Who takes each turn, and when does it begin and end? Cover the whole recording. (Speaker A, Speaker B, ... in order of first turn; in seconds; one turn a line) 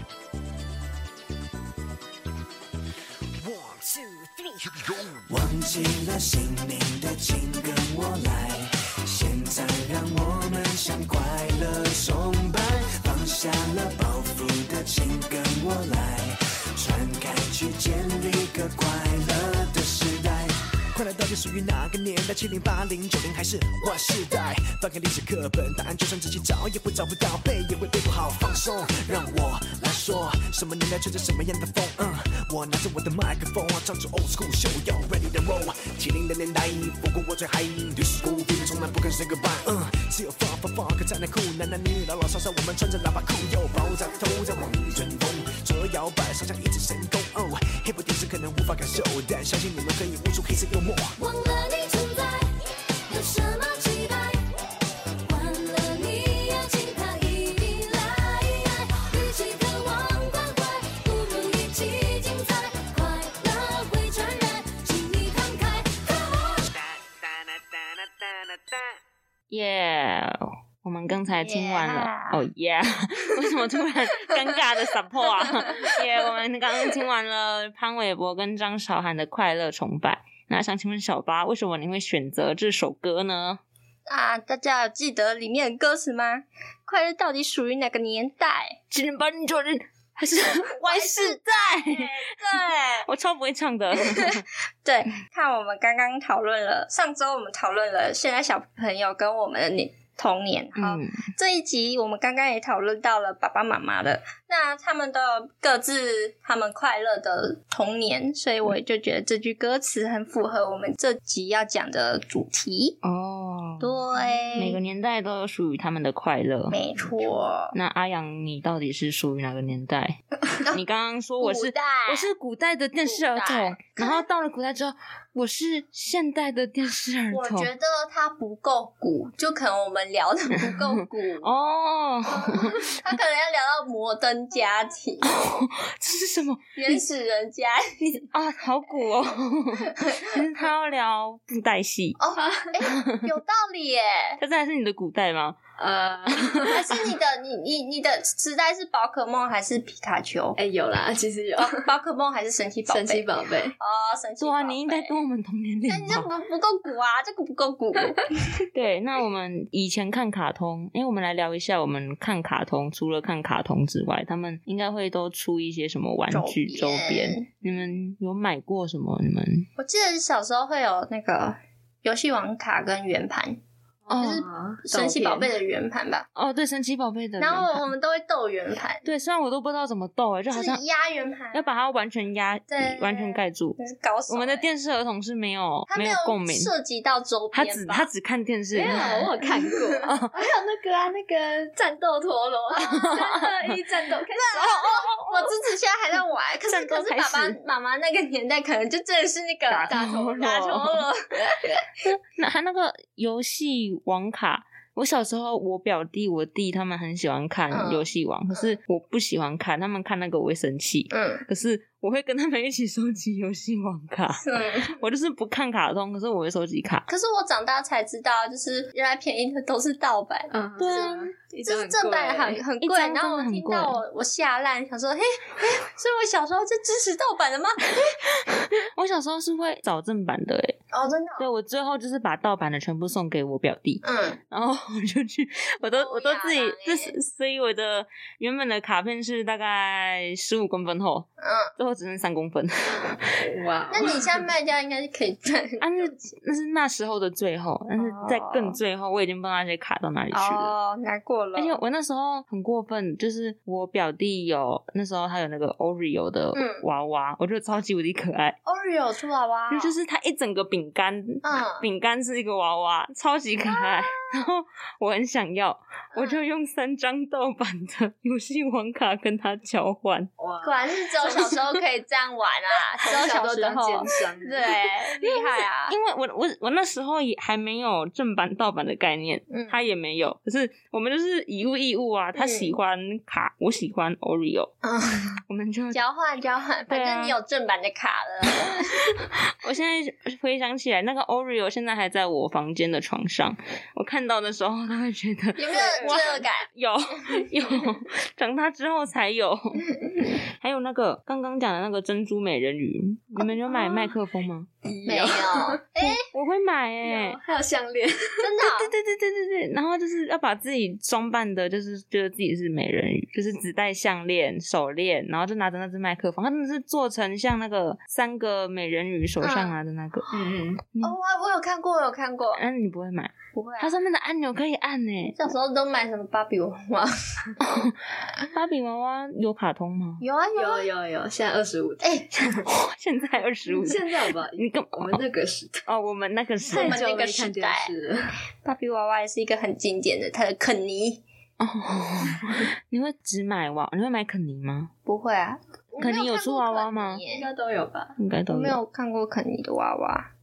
Speaker A: 3.4-51.2
Speaker B: 51.2-54.4
Speaker B: 55.2-66.6
Speaker C: 69.5-83.6
Speaker D: 71.4-72.4
Speaker D: 84.1-88.8
Speaker C: 88.9-92.3
Speaker D: 90.7-93.1
Speaker C: 93.0-94.5
Speaker D: 94.0-113.0
Speaker C: 100.8-101.2
Speaker C: 113.0-114.0
Speaker D: 113.8-114.8
Speaker E: 114.3-114.5
Speaker C: 114.6-116.8
Speaker D: 116.7-117.8
Speaker C: 117.7-127.7
Speaker D: 121.4-122.3
Speaker D: 123.1-124.2
Speaker D: 127.3-131.5
Speaker C: 130.6-132.9
Speaker D: 132.3-135.3
Speaker C: 135.2-137.0
Speaker D: 136.8-138.3
Speaker C: 138.3-142.2
Speaker D: 140.0-140.4
Speaker D: 142.2-144.4
Speaker E: 142.4-142.7
Speaker C: 142.8-143.3
Speaker C: 144.4-145.6
Speaker E: 145.8-146.8
Speaker C: 146.3-146.9
Speaker D: 146.7-150.6
Speaker E: 150.6-151.9
Speaker D: 151.6-153.3
Speaker E: 152.9-153.8
Speaker D: 153.8-155.1
Speaker C: 154.4-156.3
Speaker D: 155.9-158.3
Speaker C: 158.7-169.7
Speaker D: 166.3-167.5
Speaker D: 169.8-173.6
Speaker E: 174.1-175.5
Speaker C: 174.1-174.4
Speaker D: 174.2-176.3
Speaker C: 176.4-177.9
Speaker D: 177.4-179.0
Speaker C: 179.0-180.8
Speaker D: 180.5-181.7
Speaker C: 181.5-183.8
Speaker D: 182.7-184.7
Speaker C: 184.3-186.7
Speaker D: 185.9-188.1
Speaker C: 187.5-189.3
Speaker E: 188.8-194.8
Speaker D: 189.4-190.0
Speaker C: 190.0-190.4
Speaker C: 192.8-193.6
Speaker D: 192.8-193.2
Speaker D: 194.4-201.8
Speaker C: 194.6-195.5
Speaker C: 196.7-197.6
Speaker C: 199.7-201.1
Speaker C: 202.0-217.1
Speaker D: 207.7-208.7
Speaker D: 211.1-211.5
Speaker D: 214.4-215.0
Speaker D: 217.1-228.1
Speaker E: 220.5-222.6
Speaker C: 220.8-221.3
Speaker C: 222.8-224.0
Speaker C: 228.1-230.8
Speaker D: 230.9-231.5
Speaker C: 231.4-243.4
Speaker D: 234.0-234.4
Speaker D: 235.8-237.1
Speaker D: 241.4-241.7
Speaker E: 243.3-244.4
Speaker D: 243.9-246.2
Speaker C: 245.8-250.7
Speaker D: 248.0-248.8
Speaker D: 250.3-251.8
Speaker C: 251.6-258.6
Speaker D: 256.5-256.9
Speaker D: 258.6-259.9
Speaker C: 259.7-270.3
Speaker D: 261.4-261.9
Speaker D: 263.7-264.1
Speaker D: 266.1-266.4
Speaker E: 270.4-271.5
Speaker D: 270.6-275.9
Speaker E: 273.0-274.8
Speaker C: 275.2-284.7
Speaker D: 279.5-279.8
Speaker D: 282.4-282.8
Speaker D: 284.8-285.4
Speaker C: 285.5-286.0
Speaker D: 285.9-289.1
Speaker C: 286.9-287.4
Speaker C: 288.9-304.7
Speaker D: 295.6-296.7
Speaker E: 304.8-305.8
Speaker D: 305.1-306.2
Speaker C: 306.0-307.4
Speaker E: 307.0-308.5
Speaker D: 308.4-308.9
Speaker C: 308.6-320.3
Speaker D: 319.4-319.8
Speaker E: 320.3-320.8
Speaker D: 321.0-322.6
Speaker C: 322.5-325.5
Speaker D: 323.5-324.0
Speaker D: 325.3-327.6
Speaker C: 327.6-330.2
Speaker D: 330.2-330.9
Speaker E: 330.6-332.5
Speaker C: 332.4-335.2
Speaker E: 333.7-335.8
Speaker C: 335.9-337.0
Speaker D: 336.7-337.9
Speaker E: 336.7-338.3
Speaker D: 338.6-341.2
Speaker C: 341.6-344.9
Speaker D: 345.1-347.5
Speaker C: 346.0-347.2
Speaker E: 347.3-348.1
Speaker C: 348.2-348.8
Speaker D: 348.5-350.3